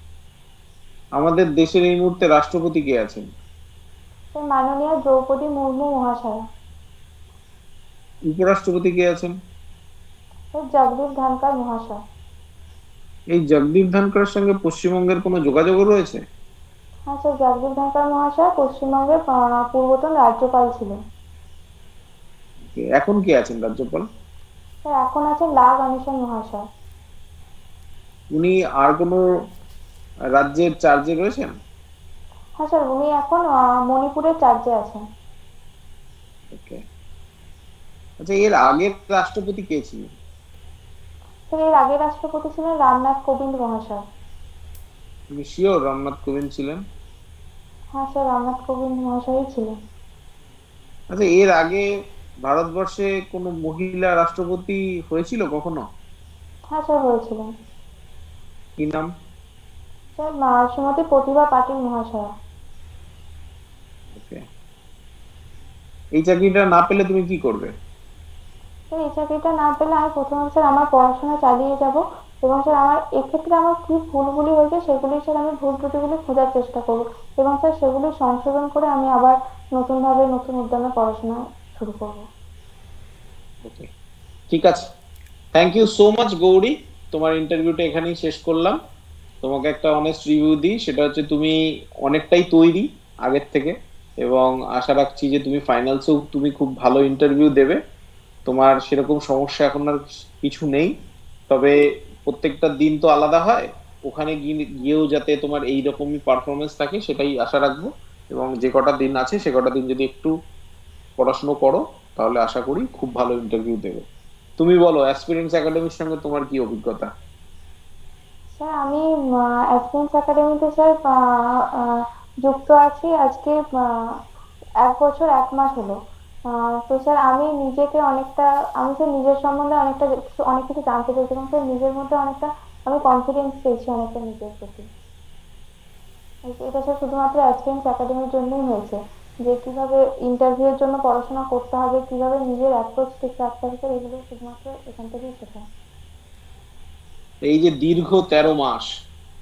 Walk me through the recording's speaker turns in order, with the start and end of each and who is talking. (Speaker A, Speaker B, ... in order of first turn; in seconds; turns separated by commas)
Speaker A: 1.2-3.2, Speaker B: 4.3-6.4, Speaker A: 8.3-9.3, Speaker B: 10.5-12.0, Speaker A: 13.3-16.2, Speaker B: 17.1-21.0, Speaker A: 22.6-24.0, Speaker B: 24.8-26.6, Speaker A: 28.3-29.2, Speaker A: 30.4-31.5, Speaker B: 32.6-35.0, Speaker A: 36.5-36.8, Speaker A: 38.2-40.0, Speaker B: 41.5-44.0, Speaker A: 45.3-46.8, Speaker B: 47.9-49.7, Speaker A: 51.1-51.8, Speaker A: 52.5-55.8, Speaker B: 56.7-57.5, Speaker A: 58.8-59.1, Speaker B: 60.2-62.3, Speaker A: 64.1-64.4, Speaker A: 66.2-67.7, Speaker B: 68.9-82.2, Speaker A: 84.5-84.8, Speaker A: 85.5-88.8, Speaker A: 89.4-91.5, Speaker A: 92.0-97.8, Speaker A: 98.5-100.9, Speaker A: 102.3-110.3, Speaker A: 111.2-114.0, Speaker A: 114.6-117.1, Speaker B: 118.5-119.0, Speaker B: 119.7-121.0, Speaker B: 122.4-123.9, Speaker B: 124.8-126.0, Speaker B: 126.9-134.8, Speaker B: 136.5-145.6, Speaker A: 147.4-148.9